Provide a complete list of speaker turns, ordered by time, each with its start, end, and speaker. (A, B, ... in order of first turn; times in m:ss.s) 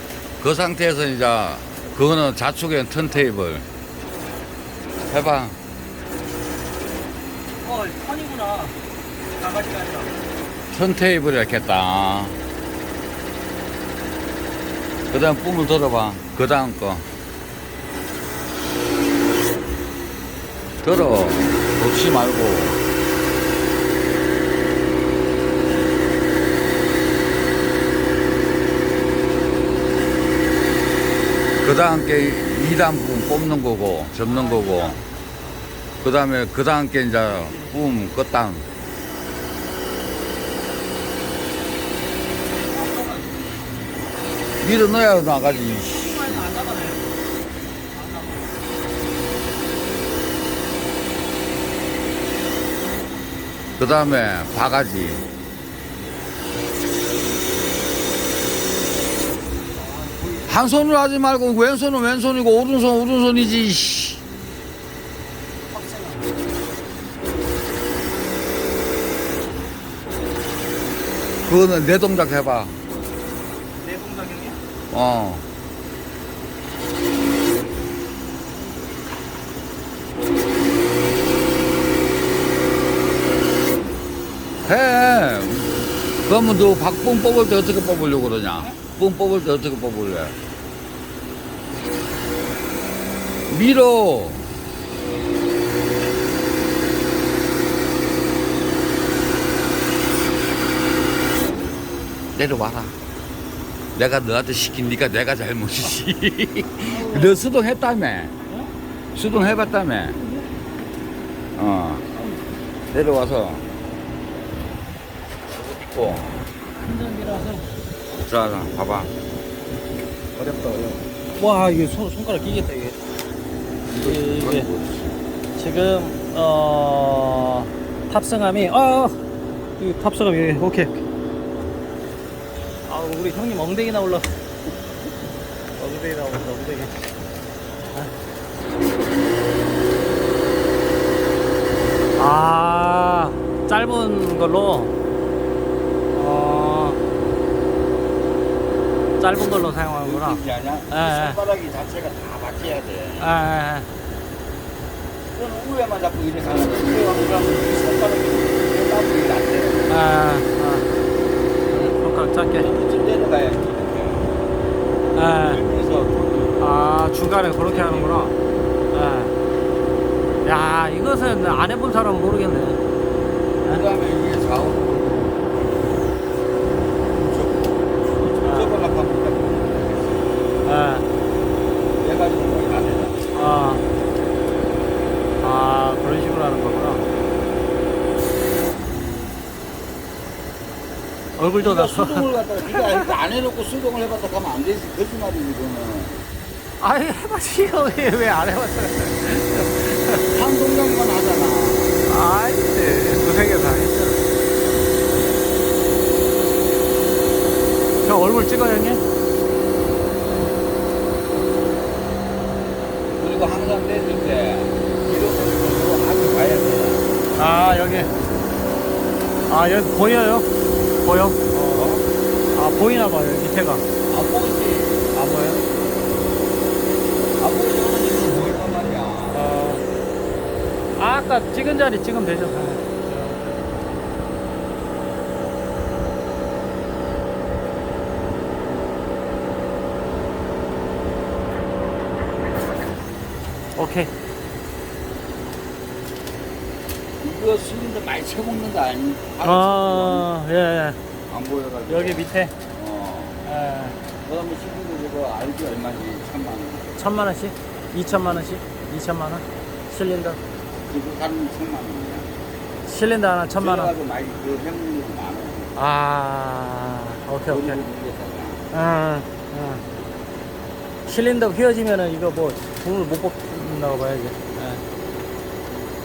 0:00.4-0:03.6 A
0:05.1-0:05.6 A
0:07.6-0:10.2 B
0:10.7-0:12.4 A
0:15.1-0:17.0 A
0:20.8-0:22.8 A
0:31.6-0:35.0 A
0:34.2-0:35.2 B
0:36.0-0:38.6 A
0:37.3-0:37.9 B
0:42.7-0:43.7 B
0:44.6-0:46.4 A
0:45.4-0:47.2 B
0:47.9-0:48.5 B
0:53.8-0:55.2 A
0:59.7-1:00.9 B
1:00.5-1:04.2 A
1:05.7-1:06.4 B
1:11.4-1:12.8 A
1:13.8-1:14.6 B
1:14.9-1:15.4 A
1:24.6-1:30.4 A
1:33.5-1:34.4 A
1:42.3-1:42.9 A
1:43.9-1:48.4 A
1:46.8-1:47.4 B
1:49.1-1:50.2 A
1:50.1-1:50.4 B
1:51.5-1:52.1 A
1:52.1-1:52.4 B
1:52.9-1:53.6 A
1:55.5-1:56.4 A
1:56.8-1:57.6 B
1:58.1-1:59.1 A
2:00.3-2:01.0 A
2:01.4-2:03.0 B
2:03.9-2:05.2 A
2:03.9-2:04.7 B
2:05.5-2:09.2 B
2:09.8-2:11.0 B
2:12.8-2:14.4 B
2:15.8-2:16.9 B
2:22.2-2:24.9 B
2:26.1-2:27.0 B
2:29.2-2:31.4 B
2:30.0-2:33.3 A
2:33.2-2:33.9 B
2:35.3-2:39.9 A
2:39.9-2:40.9 B
2:41.7-2:42.7 B
2:42.5-2:44.3 A
2:45.1-2:45.6 B
2:45.1-2:46.8 A
2:46.6-2:48.3 B
2:47.5-2:48.3 A
2:48.9-2:49.3 B
2:50.4-2:52.8 B
2:53.6-2:55.8 A
2:57.1-3:00.3 A
2:58.4-2:58.7 B
3:00.6-3:01.0 B
3:02.0-3:03.3 A
3:03.3-3:03.8 B
3:05.4-3:07.0 B
3:11.4-3:13.1 B
3:11.6-3:16.2 A
3:16.8-3:20.3 B
3:20.1-3:22.0 A
3:22.0-3:24.2 B
3:28.0-3:29.0 B
3:33.2-3:37.0 A
3:37.3-3:38.1 B
3:39.5-3:40.5 B
3:41.0-3:41.9 B
3:41.7-3:42.0 A
3:42.5-3:43.8 B
3:44.1-3:45.0 A
3:45.1-3:45.6 B
3:47.4-3:49.4 A
3:49.3-3:49.8 B
3:50.9-3:53.6 B
4:03.8-4:04.1 B
4:07.2-4:10.3 A
4:09.4-4:11.0 B
4:11.3-4:13.4 A
4:11.9-4:12.5 B
4:13.4-4:14.0 B
4:14.2-4:16.9 A
4:16.9-4:20.4 B
4:20.8-4:22.3 A
4:22.8-4:23.9 B
4:23.6-4:25.7 A
4:25.7-4:27.8 B
4:27.4-4:28.6 A
4:28.7-4:29.8 B
4:31.0-4:34.8 B